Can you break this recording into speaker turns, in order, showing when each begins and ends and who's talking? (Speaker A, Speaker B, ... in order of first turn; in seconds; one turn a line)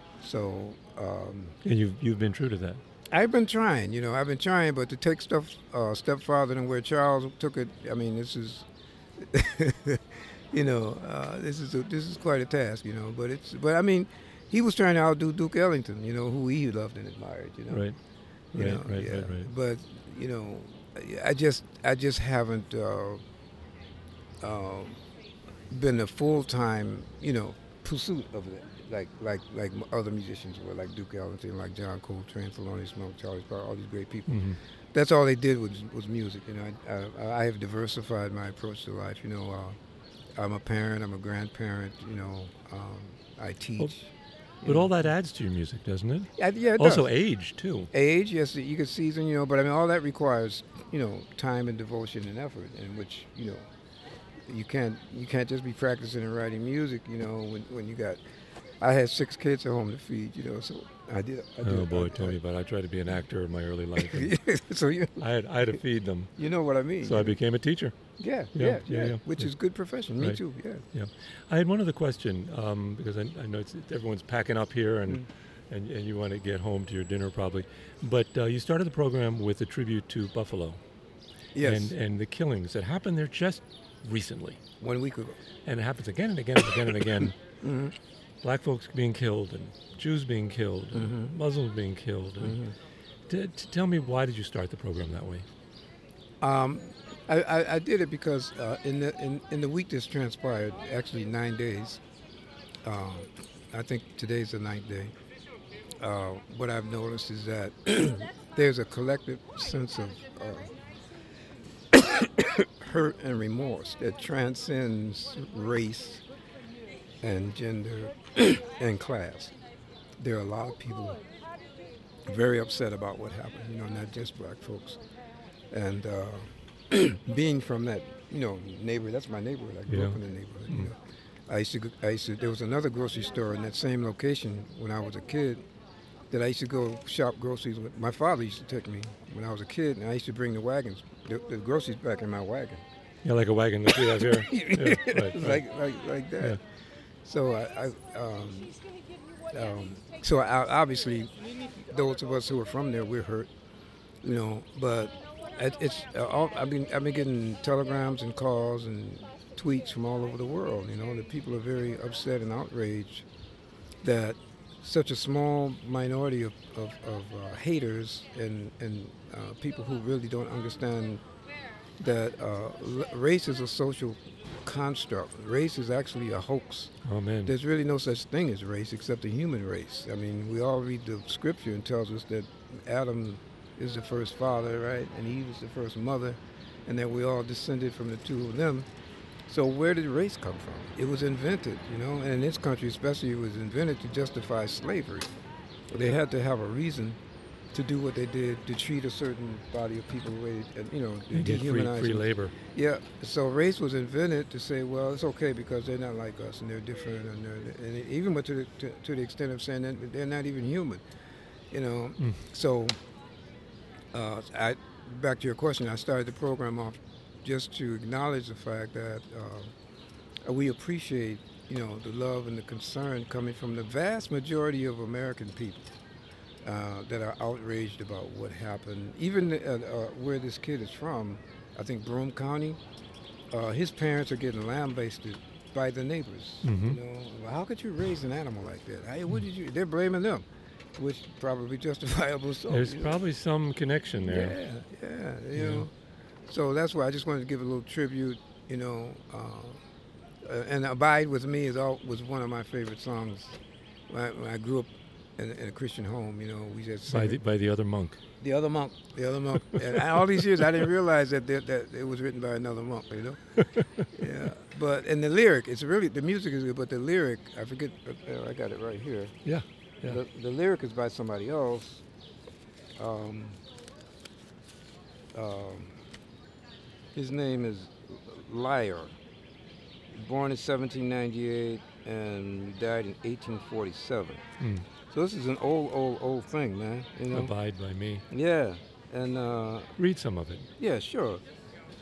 Speaker A: 0.2-1.6
Speaker B: 1.6-2.8
Speaker A: 3.1-8.7
Speaker A: 9.2-17.9
Speaker B: 17.7-18.0
Speaker A: 18.5-23.2
Speaker B: 18.5-19.5
Speaker A: 24.4-25.0
Speaker A: 25.7-39.8
Speaker B: 34.3-34.6
Speaker A: 40.4-44.1
Speaker A: 44.6-45.1
Speaker B: 44.6-47.9
Speaker A: 46.4-47.1
Speaker A: 47.9-53.7
Speaker A: 54.5-58.2
Speaker A: 58.8-62.4
Speaker B: 61.6-64.3
Speaker A: 64.0-65.2
Speaker B: 65.2-66.3
Speaker A: 66.4-67.4
Speaker B: 67.0-68.0
Speaker A: 68.2-70.8
Speaker B: 68.5-69.5
Speaker B: 70.9-80.8
Speaker A: 81.6-81.9
Speaker B: 81.6-84.6
Speaker A: 84.8-85.4
Speaker B: 85.7-87.4
Speaker A: 87.6-87.9
Speaker B: 88.4-92.6
Speaker A: 90.9-91.4
Speaker A: 92.4-92.7
Speaker B: 93.3-95.5
Speaker A: 96.4-102.0
Speaker A: 102.8-105.1
Speaker A: 106.0-110.7
Speaker A: 111.9-116.2
Speaker A: 117.2-119.5
Speaker A: 120.2-121.2
Speaker A: 122.3-125.0
Speaker A: 125.7-135.7
Speaker B: 129.9-130.2
Speaker A: 136.3-142.8
Speaker B: 143.2-145.6
Speaker A: 143.9-146.6
Speaker A: 147.2-148.8
Speaker A: 149.5-153.5
Speaker A: 154.2-163.3
Speaker A: 164.0-171.2
Speaker A: 172.0-176.9
Speaker B: 177.1-177.6
Speaker A: 177.5-188.9
Speaker A: 189.5-195.3
Speaker A: 195.9-197.2
Speaker A: 197.7-211.0
Speaker B: 201.3-202.5
Speaker A: 211.7-213.0
Speaker A: 214.1-219.7
Speaker A: 220.4-225.8
Speaker A: 226.6-232.8
Speaker A: 233.5-243.2
Speaker B: 236.6-237.0
Speaker B: 242.7-244.6
Speaker A: 244.2-245.9
Speaker B: 245.6-245.9
Speaker A: 246.5-249.8
Speaker A: 250.4-253.6
Speaker A: 254.1-257.4
Speaker B: 257.1-258.2
Speaker A: 258.4-269.4
Speaker B: 269.5-270.2
Speaker A: 270.0-272.0
Speaker A: 273.0-273.6
Speaker A: 275.3-276.0
Speaker A: 277.1-279.2
Speaker A: 280.1-284.4
Speaker B: 284.6-284.9
Speaker A: 285.1-287.5
Speaker B: 287.3-288.3
Speaker A: 288.3-289.9
Speaker B: 290.0-290.7
Speaker A: 290.8-291.4